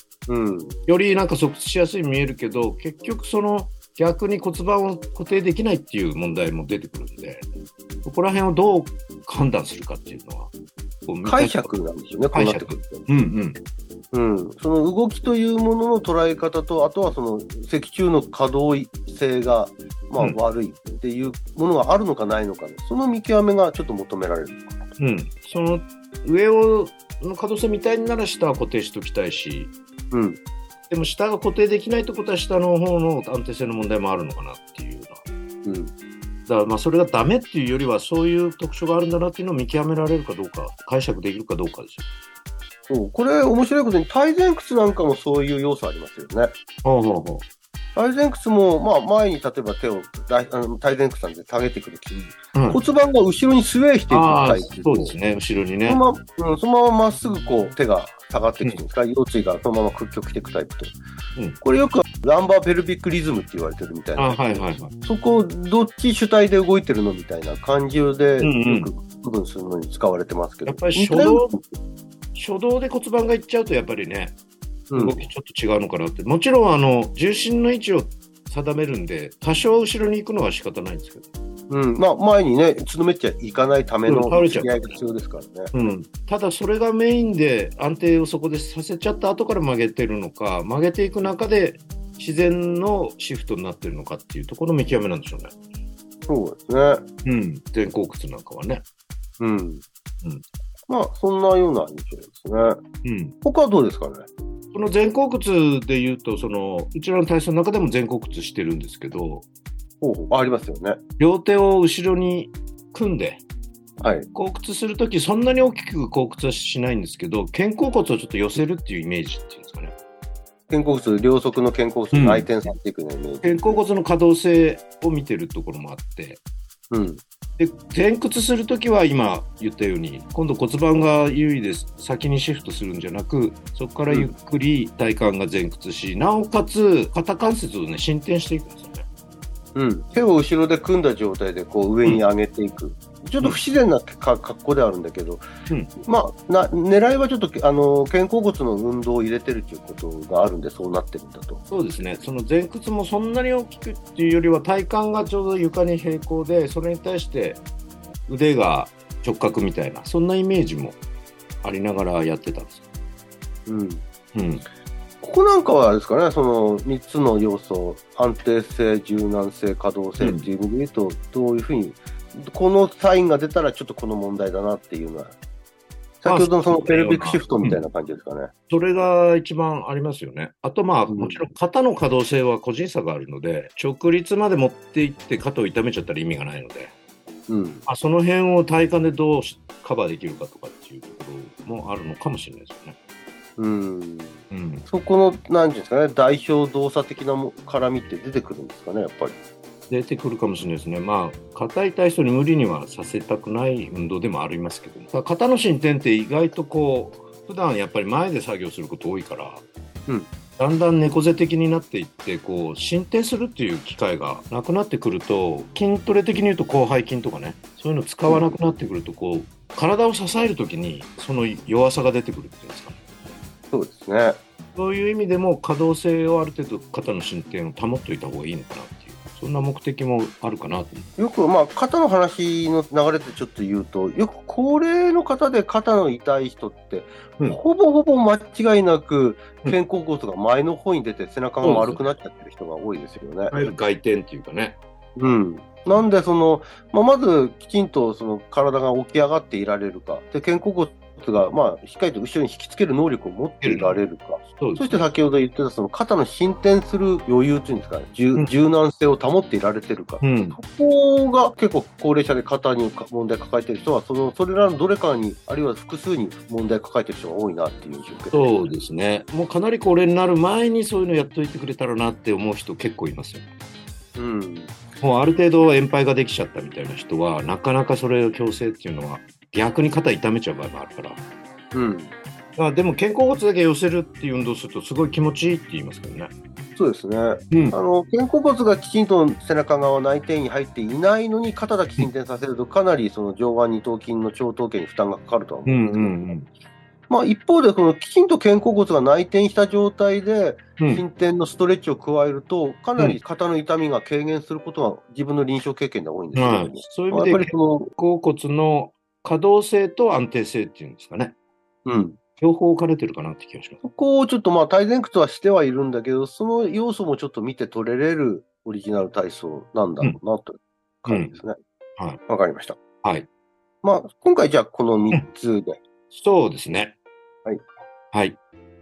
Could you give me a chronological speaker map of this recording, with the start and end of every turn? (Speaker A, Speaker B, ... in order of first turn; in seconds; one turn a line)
Speaker A: 0.3-0.8
Speaker B: 0.9-7.5
Speaker B: 8.0-10.5
Speaker B: 11.1-11.7
Speaker A: 11.2-13.1
Speaker B: 12.3-13.6
Speaker A: 14.1-24.9
Speaker B: 25.0-29.7
Speaker A: 30.1-30.4
Speaker B: 30.9-35.2
Speaker A: 35.6-35.9
Speaker B: 36.5-42.1
Speaker A: 42.9-46.5
Speaker B: 46.8-47.4
Speaker A: 48.0-55.1
Speaker B: 52.5-52.8
Speaker B: 54.1-56.0
Speaker A: 55.9-61.0
Speaker A: 61.6-71.6
Speaker B: 64.2-64.9
Speaker B: 68.4-68.9
Speaker B: 70.7-71.6
Speaker B: 72.3-74.4
Speaker A: 74.9-75.3
Speaker B: 75.0-81.2
Speaker A: 81.7-85.7
Speaker B: 84.1-85.0
Speaker B: 85.7-95.6
Speaker A: 96.3-97.0
Speaker B: 97.2-98.8
Speaker A: 99.4-99.8
Speaker A: 100.9-102.8
Speaker B: 103.0-103.3
Speaker A: 103.4-104.3
Speaker B: 104.7-109.5
Speaker A: 110.0-111.0
Speaker B: 111.2-113.4
Speaker A: 114.0-114.3
Speaker B: 114.3-119.9
Speaker A: 120.7-123.8
Speaker B: 122.1-122.5
Speaker B: 123.4-126.4
Speaker A: 126.9-127.2
Speaker B: 127.6-139.1
Speaker A: 139.8-145.5
Speaker A: 146.0-151.7
Speaker B: 151.7-157.6
Speaker B: 158.3-161.0
Speaker B: 161.6-162.8
Speaker A: 163.7-164.0
Speaker B: 164.3-164.7
Speaker A: 165.2-175.3
Speaker B: 170.2-170.5
Speaker A: 176.2-178.5
Speaker B: 176.2-177.8
Speaker B: 178.7-186.9
Speaker A: 181.1-181.4
Speaker A: 187.5-187.8
Speaker B: 187.9-193.0
Speaker A: 193.6-199.3
Speaker B: 194.5-194.9
Speaker B: 199.9-209.7
Speaker B: 210.6-223.0
Speaker A: 218.3-218.6
Speaker A: 223.7-224.4
Speaker B: 224.8-231.1
Speaker A: 231.2-243.6
Speaker B: 241.6-242.0
Speaker B: 243.5-244.8
Speaker A: 245.2-268.7
Speaker B: 253.6-254.0
Speaker B: 254.6-255.0
Speaker B: 260.2-260.6
Speaker B: 268.3-273.5
Speaker A: 274.2-274.7
Speaker B: 275.0-281.2
Speaker A: 281.7-282.1
Speaker B: 282.6-286.3
Speaker A: 286.8-296.3
Speaker B: 295.7-296.5
Speaker A: 297.1-307.9
Speaker B: 306.3-311.4
Speaker A: 311.9-312.2
Speaker B: 312.4-313.8
Speaker A: 313.8-321.6
Speaker B: 321.1-321.3
Speaker A: 322.3-322.8
Speaker A: 323.8-325.8
Speaker B: 326.1-326.9